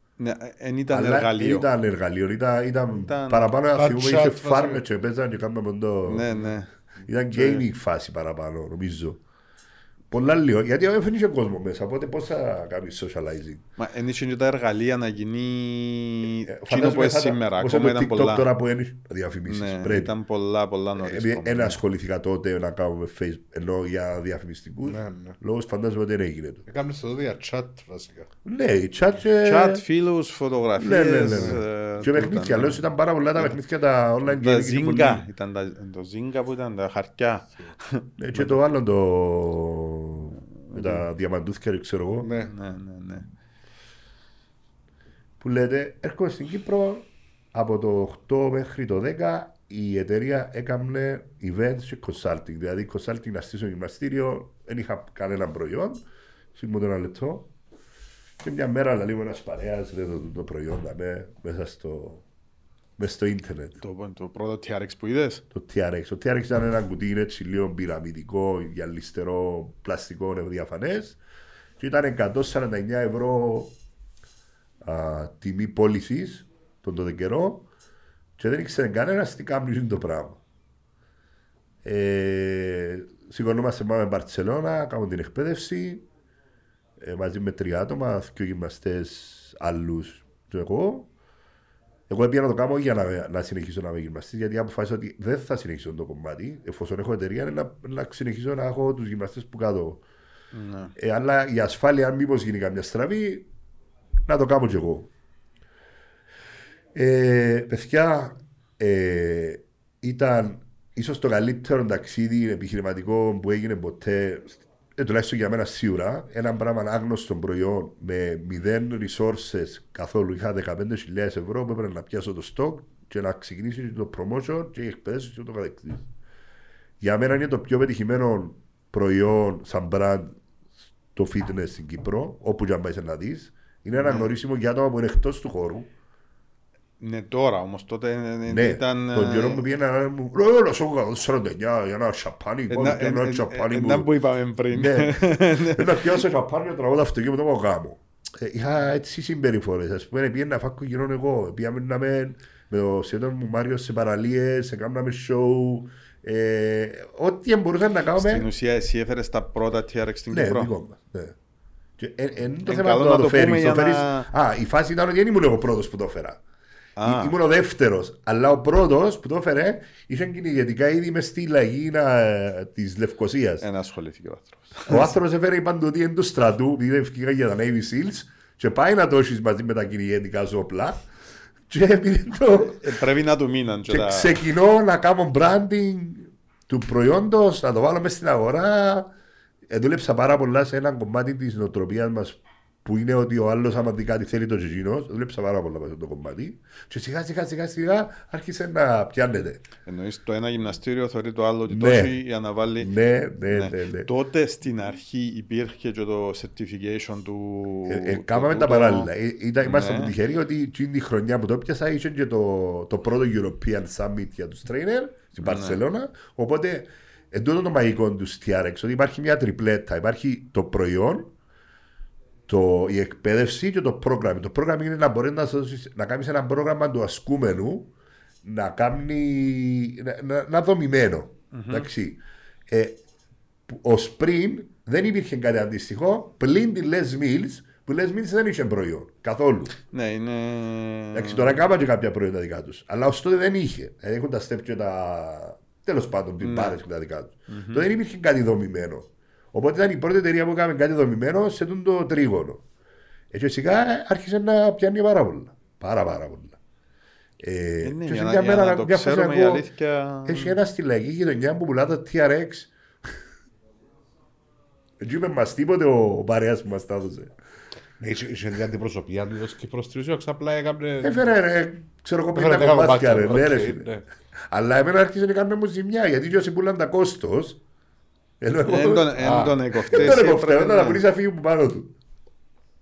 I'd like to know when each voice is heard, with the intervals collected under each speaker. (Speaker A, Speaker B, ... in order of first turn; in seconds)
Speaker A: 0.2-1.7, 3.0-3.5, 6.0-6.7, 7.3-7.6, 13.8-18.5, 19.5-21.8, 29.4-32.8, 34.2-38.6, 40.7-41.0, 42.5-43.2, 63.8-65.4, 100.5-100.9, 134.0-134.3, 137.0-139.6, 142.7-146.0, 158.2-160.7, 162.6-164.3, 167.0-167.3, 173.6-175.1, 182.6-184.4, 199.8-202.9, 203.5-209.1, 209.6-210.1, 215.4-215.8, 231.5-231.9, 239.9-241.6, 246.4-246.8, 247.5-247.9, 257.8-260.6, 278.6-281.0
Speaker B: 0.9-6.3, 7.1-9.2, 10.1-13.6, 16.5-20.1, 21.0-26.6, 28.4-29.8, 30.8-35.2, 38.2-42.3, 45.4-56.0, 56.5-57.5, 58.4-62.2, 63.0-63.8, 65.5-71.2, 71.8-73.7, 74.8-77.7, 78.4-80.4, 81.8-86.1, 87.0-91.1, 92.1-100.0, 101.0-103.5, 104.2-105.1, 106.9-126.1, 127.0-130.4, 131.1-135.9, 138.5-144.1, 144.7-158.5, 160.3-161.3, 162.0-166.4, 167.0-173.6, 174.9-181.1, 181.7-182.9, 183.9-189.1, 189.7-199.6, 201.7-202.2, 202.8-204.1, 207.9-221.3, 222.5-227.9, 228.4-233.0, 233.7-239.7, 241.1-252.6, 253.3-256.6, 257.4-259.6, 260.2-262.7, 265.0-267.3, 271.0-273.9, 274.5-277.6, 278.4-279.1, 279.8-281.9
Speaker C: 3.7-4.8, 24.9-25.4, 26.7-28.3, 31.3-31.6, 42.2-42.5, 268.0-271.3, 272.3-274.0, 279.2-279.9